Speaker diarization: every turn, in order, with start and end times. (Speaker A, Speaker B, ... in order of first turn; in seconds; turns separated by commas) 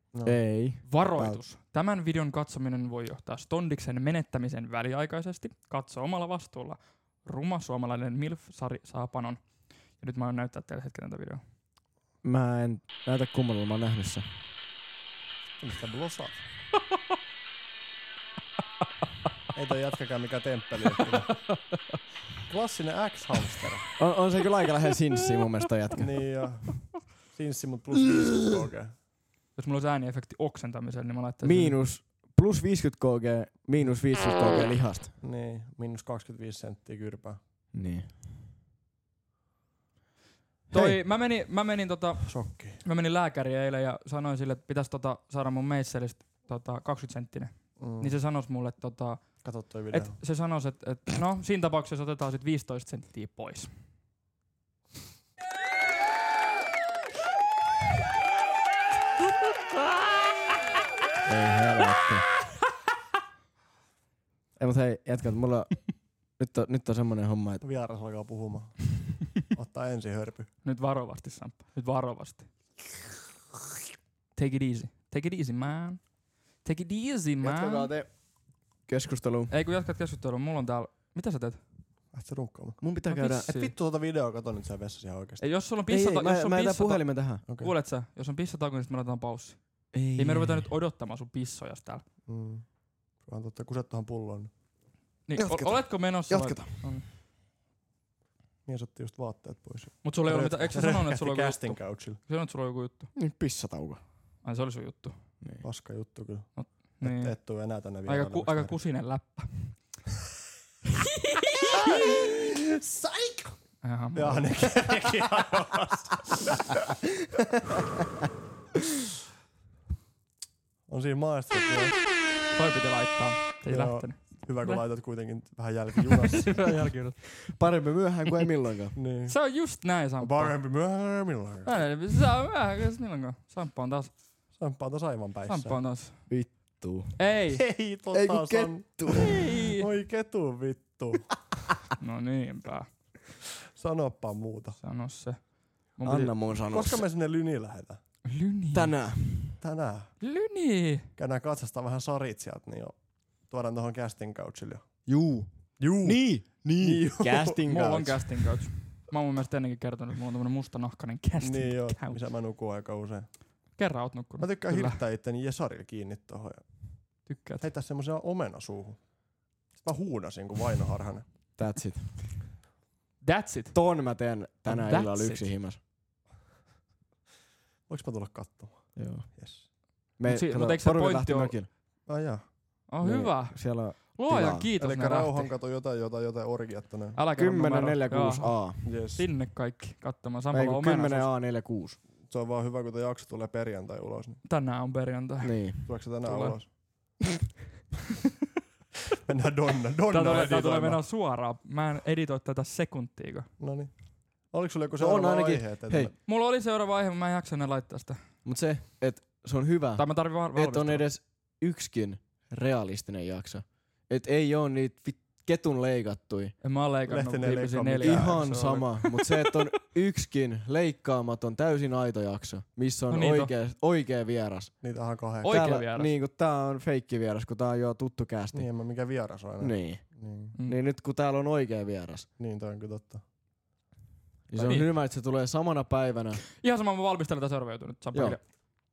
Speaker A: 0.1-0.4, Speaker B: 0.2-1.4, Speaker C: 0.8-11.4, Speaker B: 12.2-14.3, Speaker A: 15.6-16.4, Speaker A: 19.5-21.5, Speaker A: 22.5-23.9, Speaker B: 24.0-26.1, Speaker A: 26.0-28.9, Speaker C: 29.6-31.8, Speaker B: 31.4-35.1, Speaker A: 35.2-37.4, Speaker B: 37.7-38.1, Speaker C: 40.7-53.7, Speaker B: 40.7-41.0, Speaker A: 42.2-42.8, Speaker A: 47.8-48.1, Speaker A: 49.4-50.2, Speaker B: 61.2-62.3, Speaker B: 64.6-67.6, Speaker A: 67.6-70.5, Speaker C: 70.6-72.5, Speaker C: 74.3-77.9, Speaker B: 77.4-78.3, Speaker B: 78.9-79.5, Speaker C: 79.5-81.6, Speaker A: 82.1-82.8, Speaker B: 82.8-83.5, Speaker C: 83.1-83.7, Speaker A: 83.3-85.4, Speaker C: 85.4-92.0, Speaker B: 85.9-87.4, Speaker A: 87.5-87.7, Speaker B: 89.9-90.7, Speaker A: 92.3-94.5, Speaker C: 95.3-97.1, Speaker B: 95.4-96.8, Speaker A: 98.7-102.2, Speaker C: 100.0-103.1, Speaker B: 103.2-104.0, Speaker C: 104.4-105.2, Speaker A: 105.6-108.7, Speaker C: 106.5-107.4, Speaker C: 108.0-109.8, Speaker C: 111.3-111.9, Speaker A: 111.7-113.6, Speaker C: 113.8-114.6, Speaker A: 114.2-116.7, Speaker A: 120.9-122.0, Speaker C: 122.5-124.8, Speaker A: 123.7-126.9, Speaker C: 126.5-127.4, Speaker B: 127.5-129.0, Speaker A: 128.9-129.4, Speaker C: 129.3-130.6, Speaker A: 130.2-131.8, Speaker C: 131.7-134.2, Speaker A: 134.6-135.8, Speaker C: 135.5-136.6, Speaker B: 136.3-137.3, Speaker C: 137.2-137.6, Speaker A: 137.6-141.5, Speaker B: 138.1-139.5, Speaker C: 139.1-139.9, Speaker C: 142.0-142.9, Speaker A: 143.7-144.8, Speaker C: 144.8-146.3, Speaker B: 146.0-147.0, Speaker A: 146.7-148.0, Speaker C: 148.3-148.9, Speaker B: 148.7-149.6, Speaker A: 149.6-150.2, Speaker C: 150.2-151.1, Speaker A: 151.2-155.0, Speaker B: 155.1-158.5, Speaker A: 155.8-157.6, Speaker C: 157.7-162.2, Speaker A: 161.4-163.4, Speaker C: 163.8-165.0, Speaker A: 164.4-171.3, Speaker C: 167.2-167.7, Speaker B: 171.6-172.3, Speaker C: 173.2-173.8, Speaker B: 173.7-175.8, Speaker C: 174.7-175.5, Speaker A: 177.9-179.7, Speaker B: 179.0-179.3, Speaker B: 180.2-181.7, Speaker C: 180.2-181.6, Speaker A: 182.1-182.7, Speaker C: 182.9-185.5, Speaker B: 183.0-184.7, Speaker A: 184.8-187.2, Speaker C: 187.2-191.3, Speaker B: 187.3-188.8, Speaker A: 188.8-189.3, Speaker B: 190.5-192.0, Speaker A: 192.2-194.4, Speaker C: 194.4-196.6, Speaker B: 195.4-195.8, Speaker A: 195.8-196.8, Speaker A: 199.3-201.0, Speaker C: 200.1-203.5, Speaker A: 203.6-206.1, Speaker B: 205.0-206.1, Speaker C: 206.3-208.2, Speaker B: 208.4-216.6, Speaker C: 210.0-211.1, Speaker C: 216.6-219.1, Speaker A: 217.1-218.9, Speaker B: 218.0-224.7, Speaker C: 223.1-223.5, Speaker A: 224.8-225.6, Speaker C: 225.4-226.1, Speaker B: 225.4-228.7, Speaker A: 228.5-230.6, Speaker B: 229.6-232.3, Speaker A: 232.4-233.2, Speaker B: 234.5-236.4, Speaker C: 234.6-234.9, Speaker C: 236.6-238.7, Speaker B: 238.1-238.4